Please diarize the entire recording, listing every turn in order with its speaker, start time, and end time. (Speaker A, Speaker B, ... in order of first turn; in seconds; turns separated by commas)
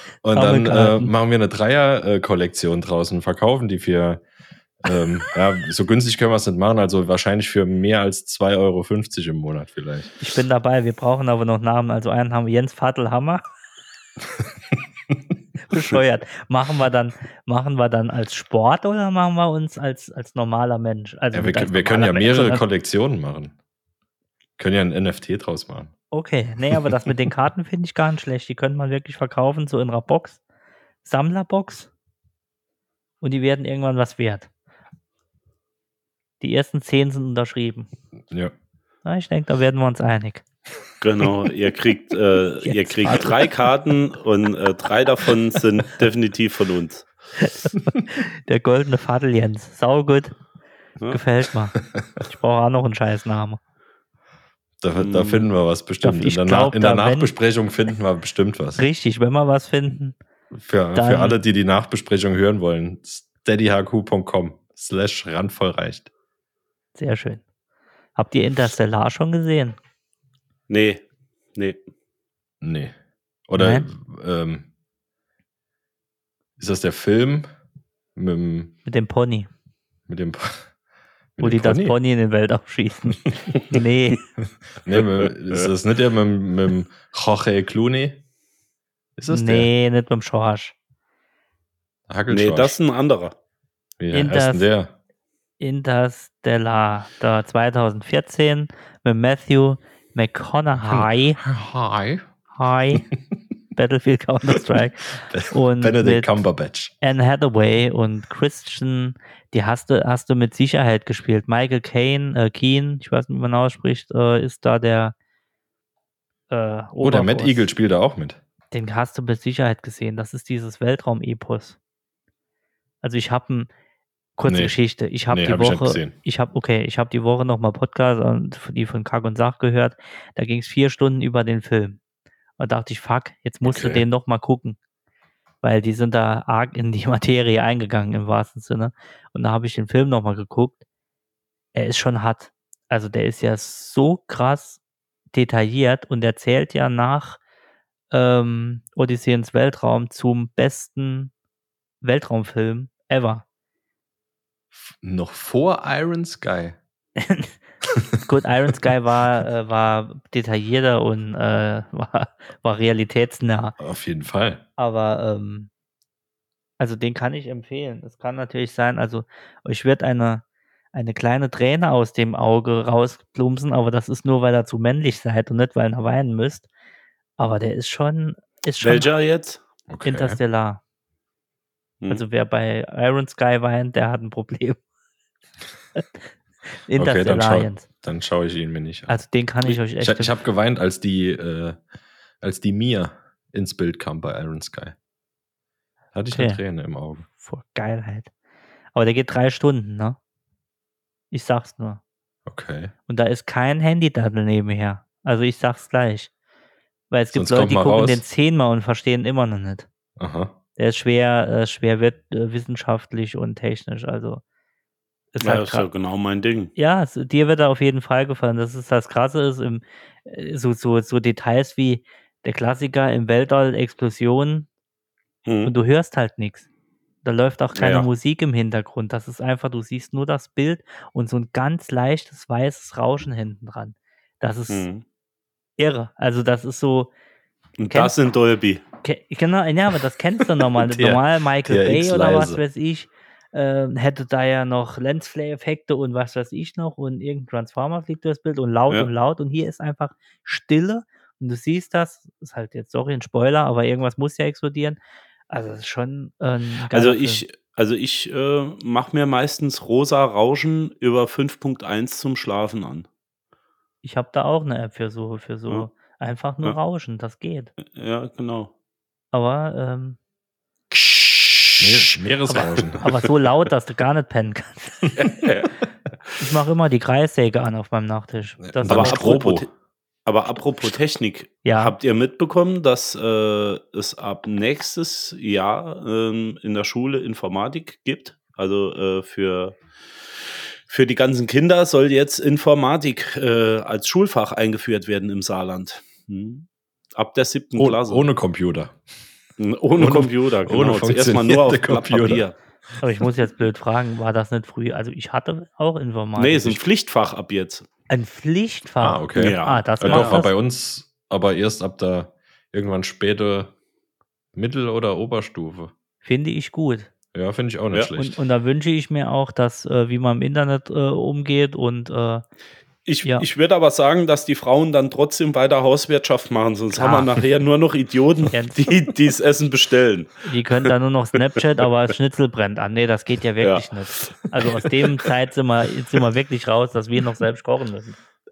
Speaker A: 0.2-4.2, Speaker B: 0.3-1.1, Speaker A: 4.8-10.1, Speaker B: 10.2-13.5, Speaker B: 15.7-22.6, Speaker A: 21.3-23.5, Speaker A: 24.6-25.9, Speaker B: 26.1-30.4, Speaker B: 31.0-31.9, Speaker B: 33.2-34.5, Speaker B: 36.4-37.9, Speaker B: 39.0-40.4, Speaker C: 41.0-47.1, Speaker B: 42.6-43.4, Speaker B: 47.4-50.4, Speaker B: 51.1-53.6, Speaker A: 54.8-58.9, Speaker C: 55.0-55.5, Speaker B: 56.0-57.3, Speaker B: 58.8-60.2, Speaker A: 60.5-66.1, Speaker B: 61.0-61.4, Speaker B: 67.0-67.4, Speaker B: 68.2-69.8, Speaker C: 70.7-71.0, Speaker A: 72.6-73.0, Speaker A: 73.5-74.7, Speaker B: 73.5-73.9, Speaker A: 76.6-77.5, Speaker A: 78.2-78.7, Speaker B: 78.9-79.5, Speaker A: 80.1-80.7, Speaker A: 81.4-82.0, Speaker B: 81.4-84.2, Speaker A: 84.8-88.2, Speaker C: 85.0-85.7, Speaker A: 89.2-89.7, Speaker B: 89.3-90.7, Speaker A: 92.1-92.8, Speaker C: 92.3-93.3, Speaker A: 94.0-94.9, Speaker B: 94.1-94.7, Speaker B: 95.6-101.4, Speaker A: 100.8-102.3, Speaker B: 102.5-103.1, Speaker B: 103.8-106.4, Speaker A: 105.3-106.9, Speaker B: 107.0-115.1, Speaker B: 116.5-117.7, Speaker A: 117.0-118.4, Speaker B: 118.7-121.8, Speaker B: 123.0-123.7, Speaker B: 124.4-132.0, Speaker A: 124.5-124.8, Speaker A: 125.3-126.1, Speaker B: 132.6-134.8, Speaker A: 133.7-134.0, Speaker B: 135.6-140.8, Speaker B: 141.7-144.8, Speaker B: 145.3-147.4, Speaker B: 148.1-151.3, Speaker B: 152.0-153.4, Speaker A: 154.8-156.8, Speaker B: 157.2-157.6, Speaker B: 158.2-163.8, Speaker A: 163.8-164.6, Speaker B: 164.8-165.7, Speaker B: 166.8-176.7, Speaker B: 177.4-179.1, Speaker C: 178.8-179.6, Speaker A: 179.9-180.4, Speaker B: 180.0-180.8, Speaker B: 182.1-184.8, Speaker B: 186.7-187.9, Speaker A: 187.0-189.2, Speaker B: 189.1-190.3, Speaker A: 189.9-191.8, Speaker A: 192.4-195.0, Speaker A: 196.1-197.3, Speaker B: 196.3-196.6, Speaker B: 197.4-198.3, Speaker B: 198.9-200.2, Speaker B: 201.3-202.0, Speaker A: 202.5-202.9, Speaker B: 203.1-206.3, Speaker B: 207.1-209.9, Speaker A: 207.3-208.2, Speaker A: 210.2-210.5, Speaker B: 210.8-214.4, Speaker B: 215.3-215.9, Speaker C: 215.4-216.7, Speaker B: 216.8-224.7, Speaker C: 225.5-225.7, Speaker B: 225.6-226.7, Speaker B: 227.2-234.9, Speaker C: 227.8-228.1, Speaker C: 234.7-235.0, Speaker B: 235.8-237.1, Speaker C: 237.8-238.8, Speaker B: 237.8-238.1, Speaker B: 239.0-255.0, Speaker A: 240.8-242.6, Speaker B: 255.5-257.4, Speaker C: 256.9-263.1, Speaker B: 264.0-267.7, Speaker C: 267.8-268.7, Speaker B: 269.3-270.2, Speaker C: 271.0-271.8, Speaker A: 271.8-273.1, Speaker B: 272.5-275.2, Speaker C: 275.2-275.8, Speaker B: 276.4-279.4, Speaker A: 278.6-279.7, Speaker C: 278.9-279.7, Speaker C: 280.3-289.8, Speaker B: 281.6-281.9, Speaker C: 290.9-298.2, Speaker A: 297.8-299.0, Speaker C: 299.6-302.6, Speaker A: 300.0-302.4, Speaker B: 303.0-306.8, Speaker C: 306.4-307.9, Speaker B: 308.1-310.5, Speaker A: 309.0-313.7, Speaker C: 309.4-310.4, Speaker A: 314.6-315.9, Speaker B: 316.2-317.1, Speaker A: 317.3-318.4, Speaker B: 318.2-322.4, Speaker C: 323.1-330.9, Speaker B: 327.0-327.3, Speaker B: 328.5-328.8, Speaker B: 330.4-338.2, Speaker C: 333.6-335.2